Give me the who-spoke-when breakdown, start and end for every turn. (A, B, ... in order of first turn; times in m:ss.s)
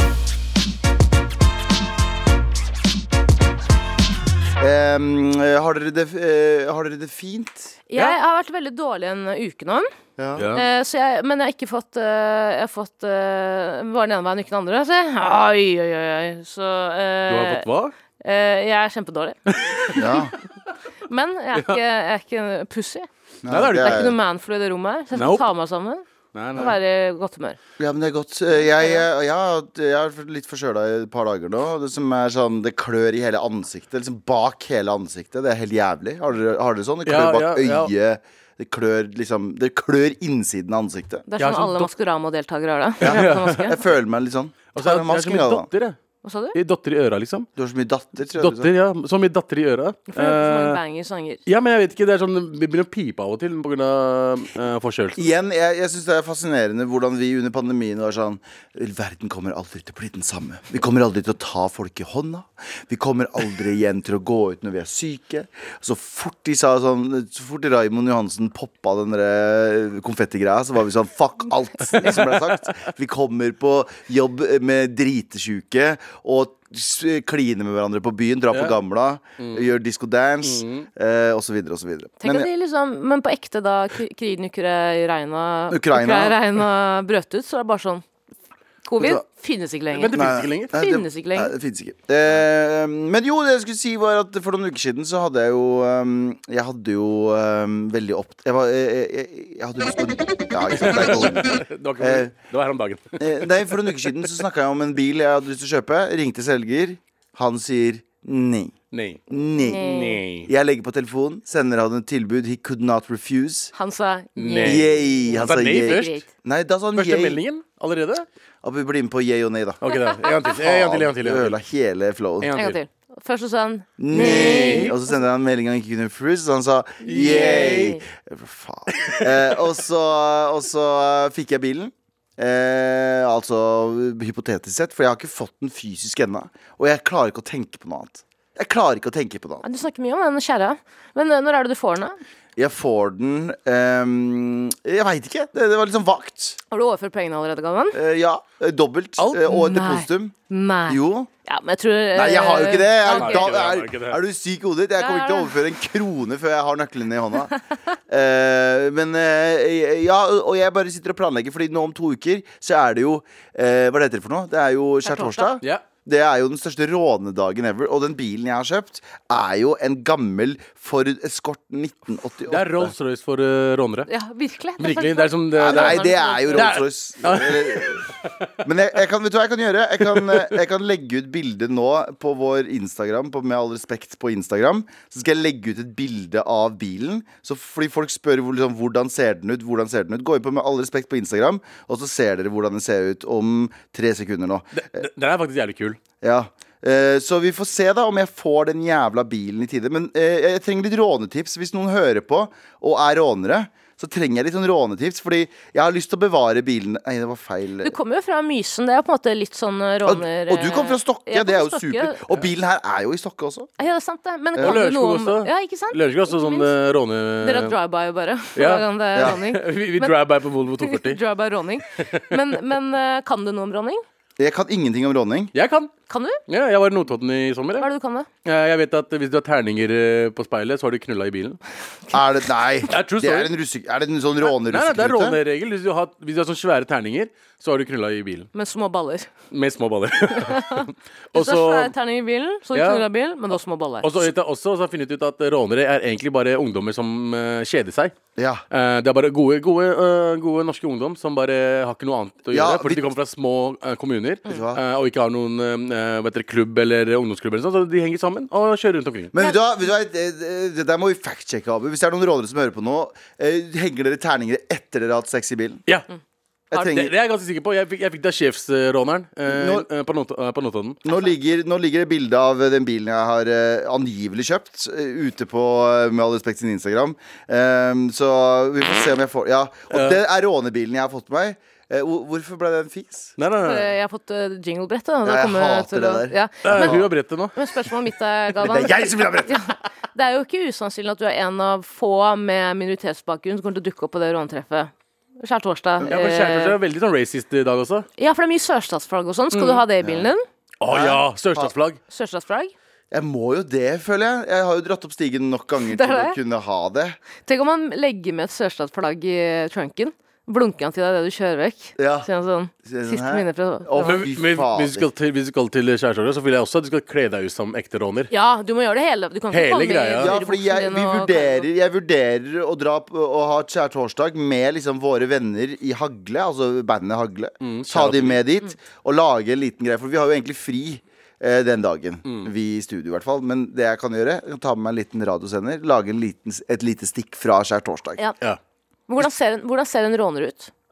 0:04.6-0:07.8 A
0:07.9-0:09.9 B
0:10.2-0:10.4 A
0:10.4-0:10.6 C
0:10.4-0:17.6 B
0:17.3-0:17.9 C
0:18.2-0:19.9 B
0:19.5-0:20.2 C
0:19.9-0:20.3 A
0:21.1-0:23.1 B
0:21.5-0:21.8 C
0:23.4-0:24.2 A
0:23.5-0:24.1 C
0:23.7-0:26.0 B
0:25.1-0:25.5 C
0:26.3-0:26.8 C
0:26.6-0:27.6 B
0:27.8-0:41.2 A
0:28.6-0:29.0 B
0:37.1-0:37.9 C
0:41.3-0:43.8 B
0:41.4-0:41.9 C
0:43.0-0:43.7 C
0:43.0-0:45.7 A
0:44.7-0:46.0 C
0:46.2-0:46.6 B
0:46.5-0:47.5 C
0:47.6-0:48.7 A
0:48.4-0:50.8 C
0:50.1-0:51.4 B
0:51.5-0:55.3 C
0:55.2-1:22.5 A
1:12.0-1:12.4 C
1:19.4-1:19.7 C
1:20.4-1:20.9 C
1:22.2-1:28.0 B
1:25.7-1:26.4 A
1:28.8-1:31.5 B
1:29.0-1:29.2 A
1:29.9-1:30.7 C
1:30.1-1:42.3 A
1:40.7-1:44.1 C
1:43.2-1:48.8 A
1:48.9-1:49.2 C
1:49.3-1:49.9 A
1:49.6-1:50.2 B
1:49.8-1:50.5 C
1:50.4-1:53.7 A
1:53.7-1:56.2 B
1:54.4-1:56.2 C
1:54.6-1:57.4 A
1:57.0-1:58.3 C
1:58.6-1:59.8 A
1:59.8-2:01.6 C
1:59.9-2:00.3 B
2:00.3-2:02.5 A
2:02.4-2:02.8 C
2:02.6-2:04.9 B
2:04.0-2:19.6 A
2:04.1-2:05.0 C
2:07.0-2:07.9 C
2:07.1-2:08.0 B
2:08.9-2:09.5 C
2:19.6-2:22.2 B
2:22.6-2:26.6 A
2:26.7-2:28.0 B
2:27.9-2:30.4 A
2:29.2-2:29.5 C
2:29.5-2:33.5 B
2:30.9-2:31.3 A
2:32.1-2:37.5 A
2:33.1-2:34.2 C
2:35.0-2:35.6 B
2:38.1-2:52.9 A
2:45.0-2:45.5 B
2:52.5-2:54.1 C
2:54.1-2:56.7 B
2:54.8-2:58.3 C
2:55.5-2:58.0 A
2:58.6-3:15.0 A
3:00.1-3:00.6 C
3:14.7-3:16.0 C
3:16.2-3:28.0 A
3:27.8-3:32.2 B
3:30.0-3:33.7 A
3:33.8-3:36.7 B
3:34.6-3:37.8 C
3:37.4-3:40.2 B
3:38.6-3:41.2 C
3:40.8-3:44.0 B
3:42.0-3:42.3 C
3:44.4-3:45.5 A
3:45.5-3:45.9 C
3:46.1-3:46.4 B
3:46.5-3:47.9 C
3:47.8-3:48.3 B
3:48.4-3:51.6 C
3:52.1-3:55.4 A
3:52.9-3:53.5 C
3:54.5-3:58.5 C
3:58.5-3:59.3 B
3:59.5-4:01.9 C
4:00.5-4:00.8 B
4:01.4-4:04.3 B
4:02.7-4:03.1 C
4:04.0-4:08.1 C
4:08.4-4:08.6 A
4:08.7-4:19.3 C
4:12.5-4:13.0 A
4:14.5-4:14.8 A
4:19.3-4:25.8 A
4:26.7-4:27.1 A
4:26.7-4:31.0 C
4:29.5-4:29.9 A
4:31.0-4:43.4 A
4:39.9-4:40.2 C
4:43.4-4:43.9 C
4:43.6-4:56.8 B
4:45.2-4:47.1 A
4:46.6-4:47.9 C
4:48.6-4:49.7 A
4:56.1-4:58.1 C
4:58.2-5:00.4 B
4:59.5-4:59.8 C
5:00.0-5:00.3 A
5:00.8-5:02.0 C
5:00.9-5:01.7 A
5:02.1-5:02.7 B
5:03.1-5:07.2 A
5:05.8-5:06.4 B
5:07.5-5:14.3 B
5:12.0-5:12.3 A
5:12.8-5:15.1 A
5:14.0-5:18.3 C
5:18.3-5:21.7 B
5:19.5-5:20.3 C
5:20.2-5:38.2 A
5:27.6-5:28.4 C
5:32.3-5:32.5 C
5:39.1-5:40.7 B